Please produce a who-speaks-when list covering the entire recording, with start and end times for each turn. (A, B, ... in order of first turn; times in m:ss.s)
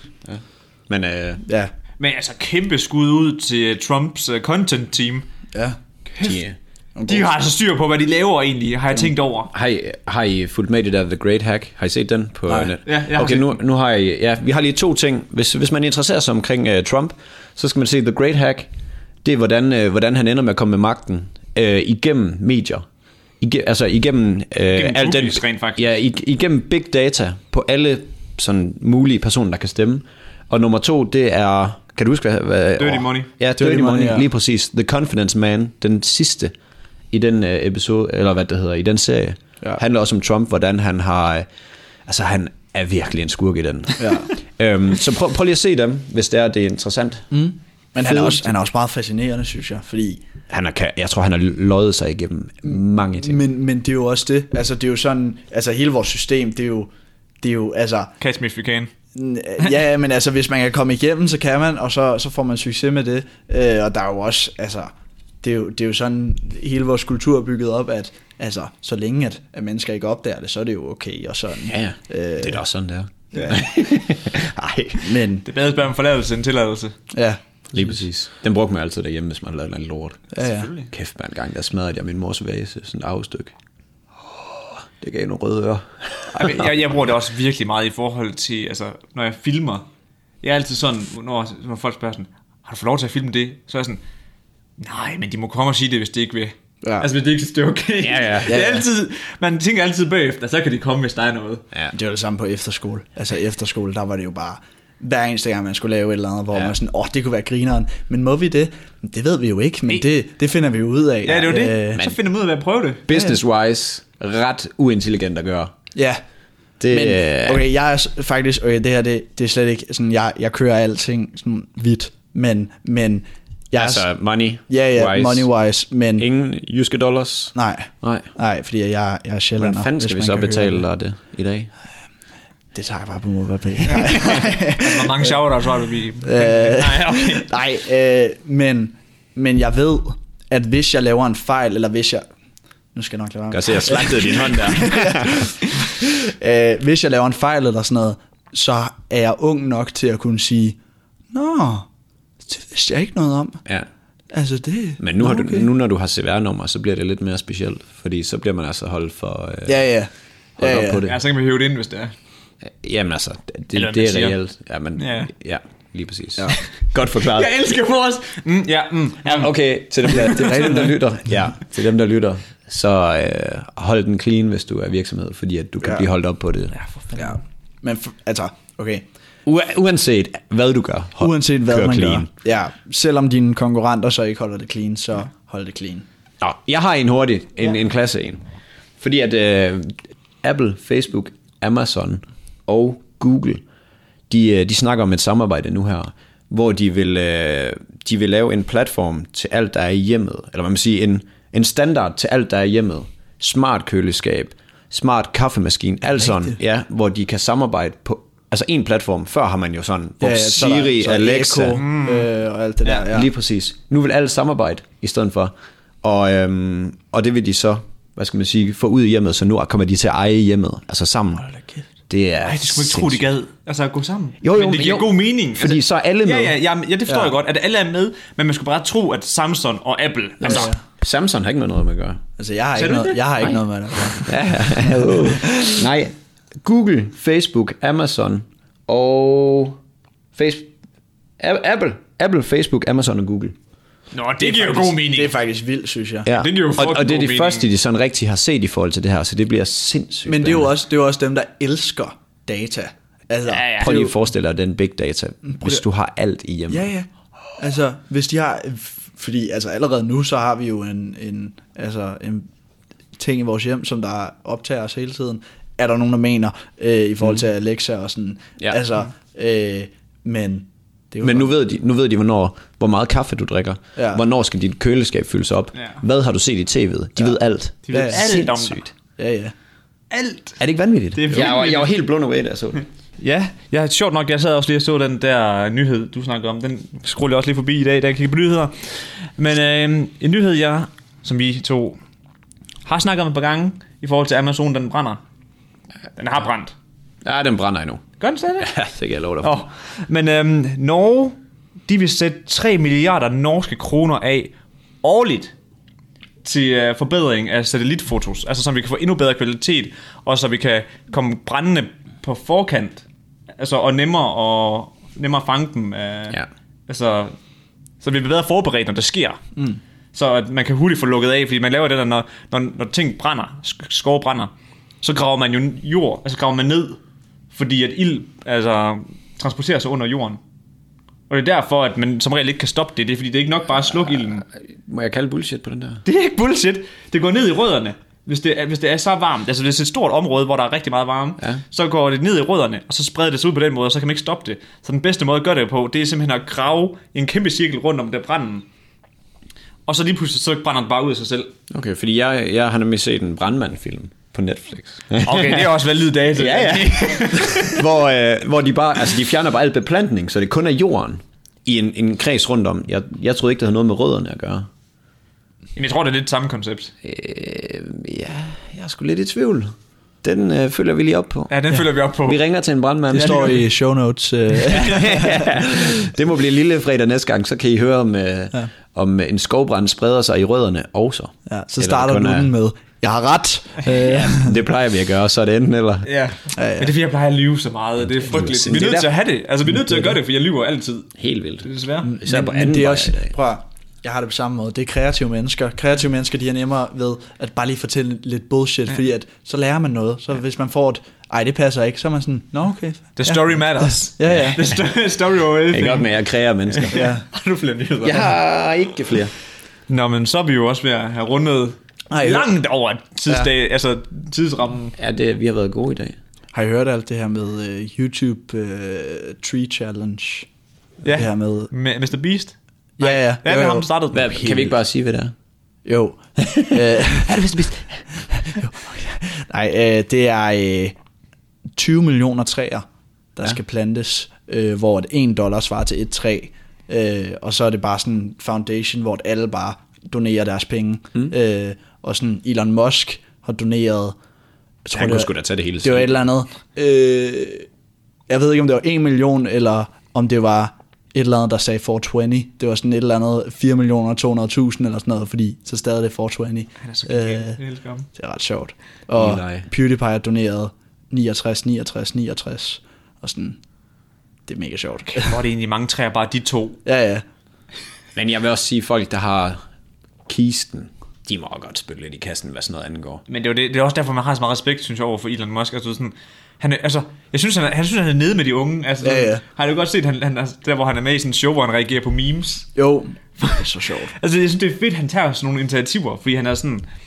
0:00.3-0:01.4 A
0:01.4-0:01.7 B
0:02.0-0:05.3 C
0:06.2-0:06.4 C
0:06.2-0:06.6 A
0:07.0-0:07.3 B
0:07.1-0:09.5 C
0:09.5-0:18.7 A
0:12.8-0:13.6 C
0:19.2-0:22.8 A
0:23.4-0:36.5 A
0:24.7-0:25.9 C
0:32.8-0:33.3 C
0:33.6-0:34.3 B
0:37.1-0:41.5 A
0:42.1-0:47.3 A
0:44.0-0:44.3 B
0:47.3-0:50.2 B
0:48.0-0:48.5 A
0:50.5-0:53.4 A
0:52.7-0:56.9 B
0:57.4-0:58.1 B
0:58.2-0:58.9 C
0:59.1-1:12.6 B
1:11.7-1:15.2 A
1:13.4-1:13.6 B
1:15.0-1:15.5 B
1:15.4-1:17.0 C
1:17.1-1:18.0 B
1:17.7-1:23.5 A
1:20.3-1:20.7 B
1:20.6-1:20.9 C
1:24.6-1:26.7 A
1:26.3-1:29.9 C
1:30.4-1:34.0 C
1:34.8-1:41.6 C
1:36.8-1:37.1 B
1:38.0-1:38.6 A
1:38.5-1:38.8 B
1:41.9-1:52.0 B
1:51.2-1:53.1 C
1:53.1-1:55.7 A
1:56.0-1:56.2 B
1:56.8-1:57.6 A
1:56.9-2:04.1 B
2:03.8-2:05.5 A
2:04.7-2:06.3 B
2:06.2-2:08.3 A
2:07.6-2:10.8 B
2:09.6-2:11.7 A
2:12.7-2:15.3 B
2:13.9-2:17.5 C
2:16.2-2:22.3 B
2:23.0-2:30.8 B
2:23.5-2:25.5 A
2:31.3-2:31.9 B
2:32.5-2:33.6 B
2:34.3-2:35.7 B
2:35.0-2:39.8 A
2:39.7-2:41.0 B
2:40.6-2:41.2 A
2:41.0-2:42.1 C
2:42.6-2:47.5 A
2:43.7-2:44.4 C
2:45.0-2:45.3 C
2:47.2-2:49.5 C
2:49.2-2:56.7 A
2:50.1-2:50.7 C
2:50.1-2:50.9 B
2:56.9-2:57.2 C
2:57.2-2:59.0 B
2:59.5-3:02.3 A
3:01.2-3:06.1 B
3:06.4-3:08.4 A
3:09.0-3:13.6 A
3:14.3-3:31.8 A
3:30.2-3:33.3 B
3:31.8-3:32.3 C
3:32.9-3:41.5 A
3:41.4-3:41.8 B
3:42.1-3:43.3 A
3:42.4-3:50.7 C
3:44.4-3:46.6 A
3:50.4-3:50.8 B
3:50.4-3:52.2 A
3:52.4-3:55.8 B
3:52.8-3:53.5 C
3:54.2-3:59.8 A
4:00.4-4:00.7 A
4:01.4-4:03.6 A
4:04.1-4:05.4 C
4:04.4-4:06.3 B
4:06.2-4:10.7 A
4:06.3-4:07.7 C
4:10.3-4:14.2 B
4:13.5-4:14.0 C
4:13.8-4:16.9 A
4:15.4-4:15.8 B
4:16.7-4:22.5 B
4:23.2-4:31.5 B
4:31.2-4:38.9 A
4:34.0-4:34.2 B
4:37.8-4:38.8 C
4:37.9-4:38.2 B
4:39.2-4:39.5 B
4:40.1-4:40.6 C
4:40.6-4:42.8 A
4:41.2-4:41.9 C
4:43.2-4:52.0 C
4:52.9-4:55.2 C
4:56.2-4:56.7 C
4:57.2-4:59.6 A
4:58.2-4:58.8 C
4:59.4-5:05.5 C
5:06.4-5:13.0 C
5:13.6-5:17.4 C
5:18.0-5:19.4 C
5:20.1-5:27.0 C
5:27.5-5:30.4 C
5:31.3-5:34.5 C
5:34.6-5:36.0 A
5:36.1-5:48.6 C
5:49.9-5:51.5 C
5:51.7-5:55.8 A
5:55.2-5:57.9 C
5:56.4-6:04.7 A
6:05.8-6:06.9 C
6:07.0-6:11.5 A
6:11.5-6:12.4 C
6:12.2-6:13.6 A
6:13.1-6:15.5 B
6:13.2-6:13.6 C
6:14.7-6:22.5 A
6:21.5-6:24.6 B
6:24.2-6:26.1 A
6:26.0-6:31.1 C
6:26.6-6:26.9 B
6:28.0-6:29.1 A
6:31.2-6:33.3 A
6:31.6-6:32.2 C
6:32.0-6:44.6 B
6:43.2-6:46.1 C
6:45.7-6:47.0 A
6:46.7-6:48.3 C
6:46.9-6:47.2 B
6:48.0-6:49.3 A
6:49.9-6:54.9 C
6:52.1-6:52.5 B
6:55.0-6:56.2 A
6:56.5-7:00.5 B
7:01.0-7:04.8 C
7:01.1-7:01.7 B
7:03.0-7:03.9 B
7:04.1-7:05.3 A
7:05.8-7:07.8 B
7:07.3-7:07.7 A
7:08.3-7:11.0 B
7:11.8-7:12.8 B
7:13.4-7:24.2 B
7:24.9-7:25.3 B
7:25.0-7:26.2 A
7:25.8-7:27.7 B
7:28.3-7:37.6 B
7:36.8-7:38.1 C
7:38.1-7:43.6 B
7:39.2-7:39.7 A
7:44.5-7:45.4 B
7:45.1-7:46.8 C
7:46.8-7:47.2 B
7:48.2-7:49.6 A
7:50.3-7:53.2 A
7:53.3-8:02.7 C
7:59.0-7:59.4 B
8:02.8-8:04.1 B
8:04.2-8:06.9 C